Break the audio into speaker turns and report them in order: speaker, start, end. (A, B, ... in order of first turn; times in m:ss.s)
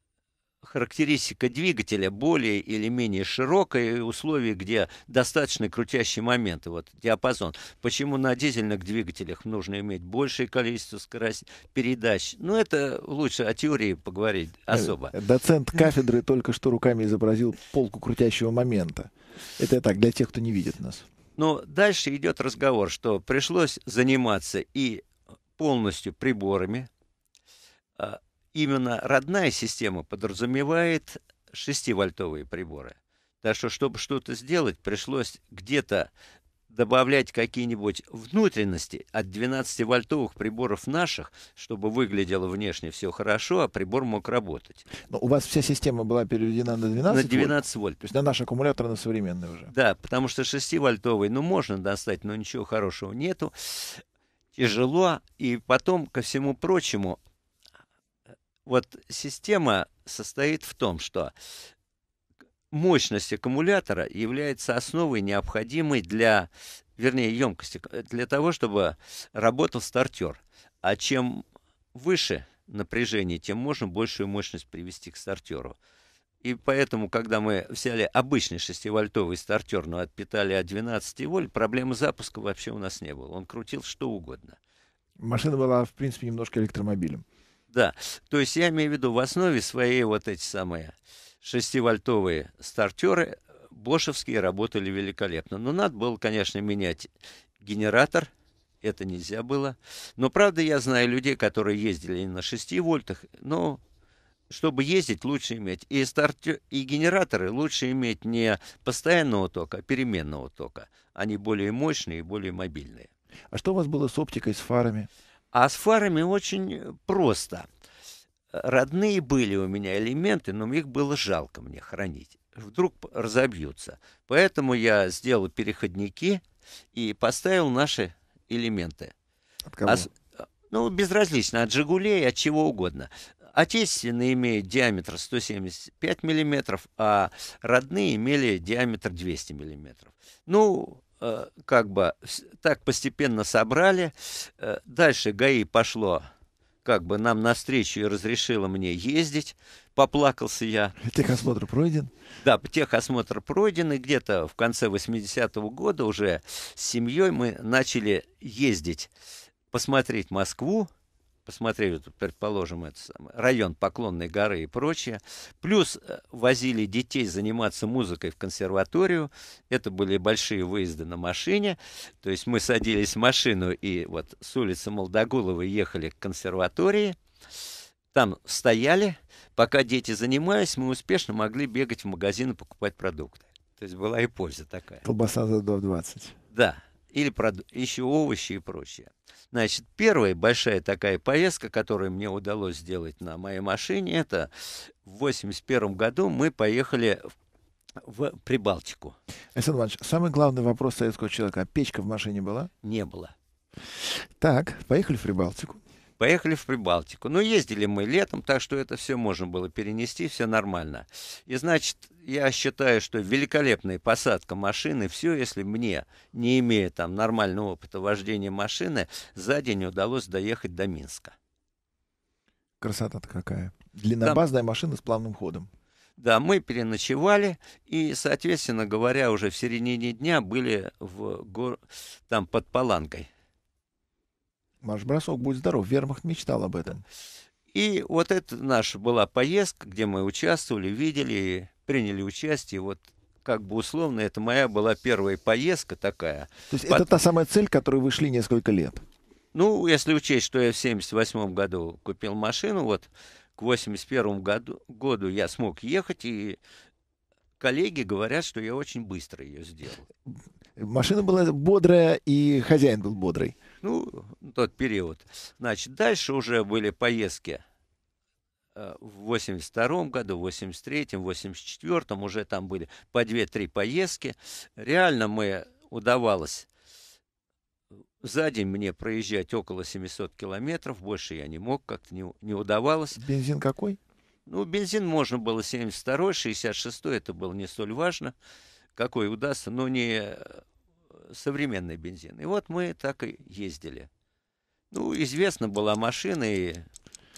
0:00.6-0:15.1 A
0:14.7-0:21.1 B
0:21.4-0:25.0 A
0:25.6-0:26.9 A
0:28.0-0:36.1 A
0:36.7-0:44.8 A
0:45.1-0:49.7 B
0:47.1-0:48.0 A
0:49.7-0:54.0 A
0:54.5-0:57.2 A
0:58.6-1:01.3 A
1:02.7-1:15.8 A
1:16.4-1:24.6 A
1:25.2-1:27.2 B
1:27.7-1:37.1 A
1:37.6-1:38.3 A
1:38.8-1:43.8 A
1:44.5-1:53.1 A
1:53.5-1:55.1 B
1:55.5-1:57.7 A
1:58.5-2:06.4 A
2:06.9-2:09.1 A
2:09.7-2:10.1 B
2:09.8-2:26.2 A
2:26.8-2:31.0 A
2:31.0-2:32.1 B
2:32.4-2:39.1 A
2:39.7-2:40.9 A
2:41.4-2:57.2 A
2:58.1-3:05.0 A
3:05.0-3:06.4 B
3:06.5-3:17.2 A
3:18.0-3:19.2 A
3:19.5-3:22.7 B
3:22.8-3:23.3 A
3:24.0-3:25.8 B
3:26.2-3:41.3 A
3:42.8-3:45.7 B
3:46.2-3:53.3 A
3:54.8-3:57.0 B
3:57.7-4:07.1 A
4:06.7-4:09.0 B
4:09.5-4:16.6 A
4:17.6-4:20.1 A
4:20.3-4:23.6 B
4:23.8-4:27.6 A
4:28.7-4:36.7 A
4:38.2-4:43.2 A
4:43.2-4:44.0 B
4:44.5-4:48.3 A
4:49.0-4:50.6 A
4:51.3-4:54.1 A
4:54.9-4:56.9 A